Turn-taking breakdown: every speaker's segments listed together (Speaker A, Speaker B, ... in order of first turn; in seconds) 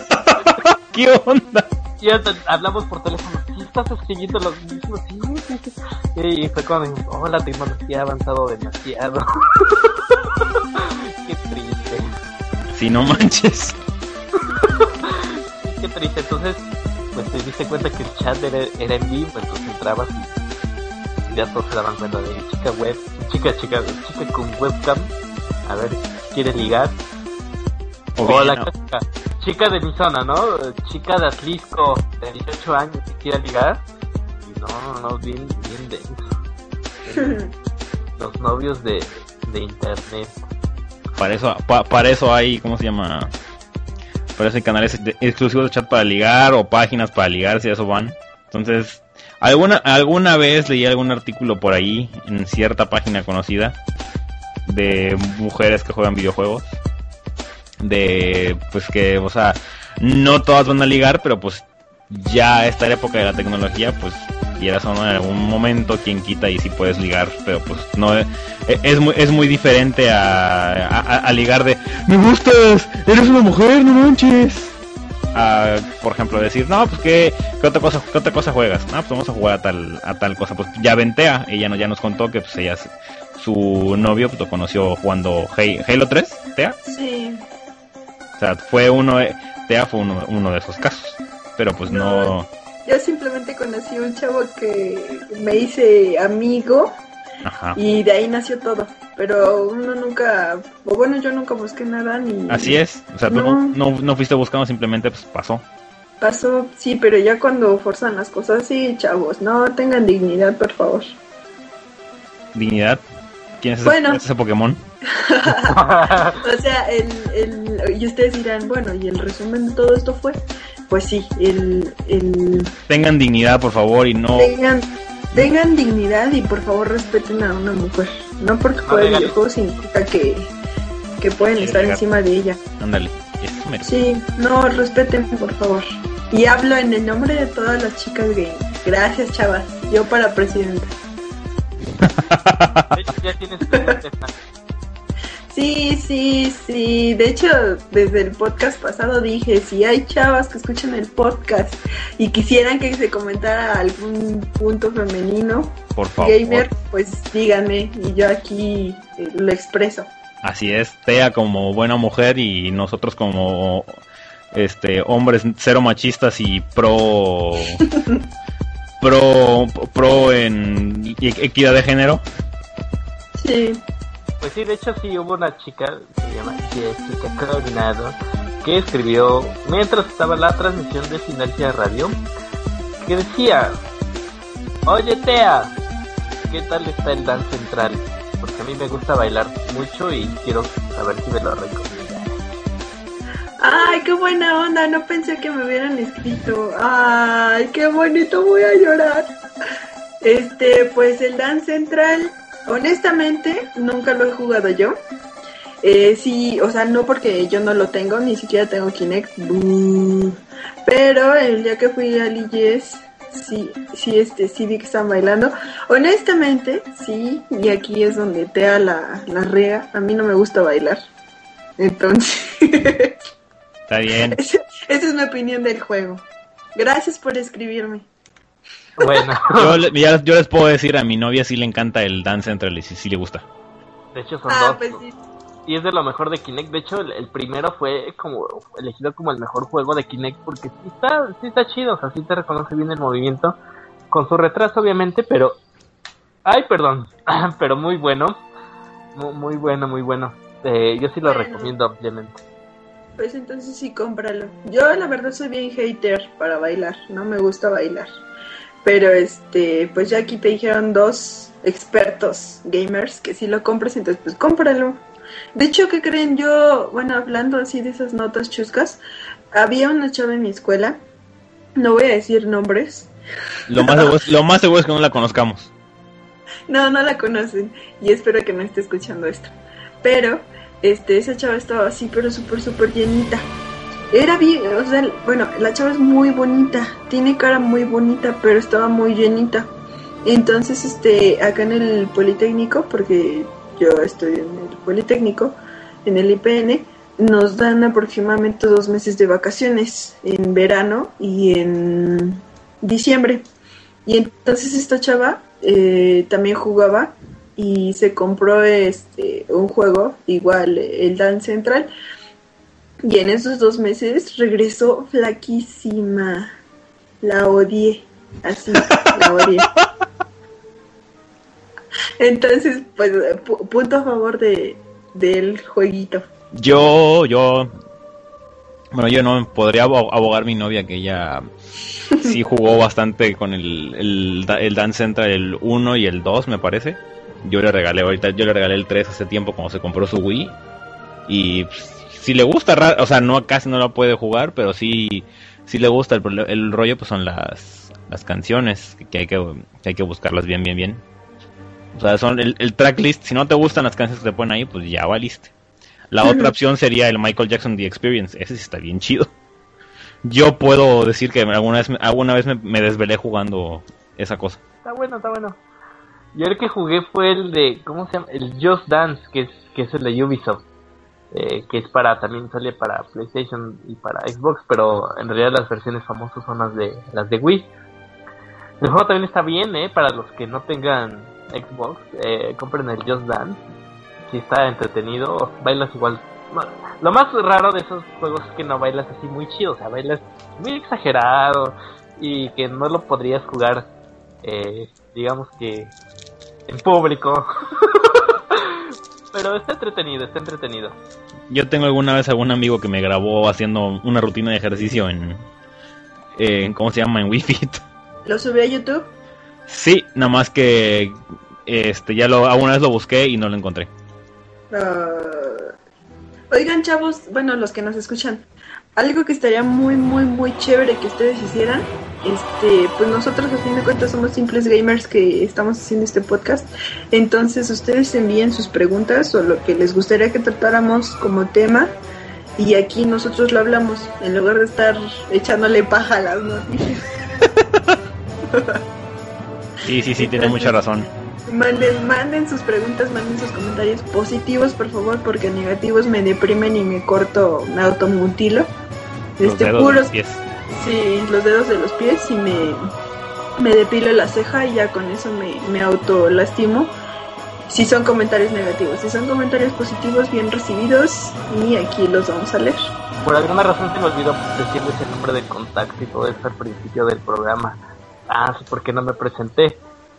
Speaker A: 0.2-1.7, 12.7-13.8, 28.1-28.7, 41.2-43.3, 44.4-53.8, 54.6-56.8, 57.8-74.7, 75.3-86.8, 88.4-92.5, 97.4-97.8, 102.5-105.6, 112.5-113.0, 113.6-114.8, 122.9-124.5, 131.6-132.0, 132.8-133.8, 142.0-142.8, 155.9-156.7, 160.4-163.9, 164.5-167.8, 169.0-172.2, 223.9-224.4, 229.6-233.4, 273.7-275.7, 318.8-319.1, 326.5-327.7, 328.9-331.4, 332.2-340.5, 341.3-351.0, 351.9-355.5, 356.1-359.3, 360.2-364.6, 401.5-405.5, 406.4-407.8, 409.7-413.9, 439.8-441.1, 449.4-450.4
Speaker B: 2.0-12.1, 14.5-16.6, 17.1-20.3, 21.3-25.1, 25.6-27.0, 28.2-33.8, 34.4-36.2, 37.0-37.4, 38.2-40.4, 115.7-116.4, 128.8-129.9, 142.9-144.3, 174.4-182.2, 183.0-183.8, 184.8-185.7, 186.5-192.4, 229.0-229.8, 234.1-235.0, 235.7-243.6, 244.1-245.6, 246.4-248.4, 249.1-252.4, 364.8-365.6, 366.3-370.6, 371.3-377.7, 378.8-383.6, 384.3-393.9, 394.4-395.9, 396.7-401.0, 463.2-469.8
Speaker C: 37.1-37.5, 86.8-87.4, 91.9-92.3, 92.8-97.0, 97.7-103.8, 106.2-111.2, 113.8-114.2, 115.2-115.8, 116.4-122.7, 124.3-130.5, 131.2-132.6, 133.8-140.9, 145.5-160.1, 167.8-168.2, 173.3-173.8, 193.6-199.3, 200.2-205.0, 205.8-221.0, 221.8-223.2, 224.3-226.2, 226.8-228.1, 234.5-235.2, 251.2-251.7, 253.2-258.1, 258.8-265.0, 265.5-269.0, 269.5-271.0, 271.8-273.1, 273.7-274.1, 276.7-283.5, 284.1-289.7, 290.2-303.4, 304.0-311.9, 313.0-316.5, 317.2-319.7, 322.2-326.3, 356.2-356.5, 408.2-409.1, 414.7-415.7, 416.5-432.0, 432.6-437.5, 438.4-438.8, 440.2-440.8, 441.5-448.7, 449.4-450.1, 450.7-452.8, 453.6-456.9, 457.7-462.9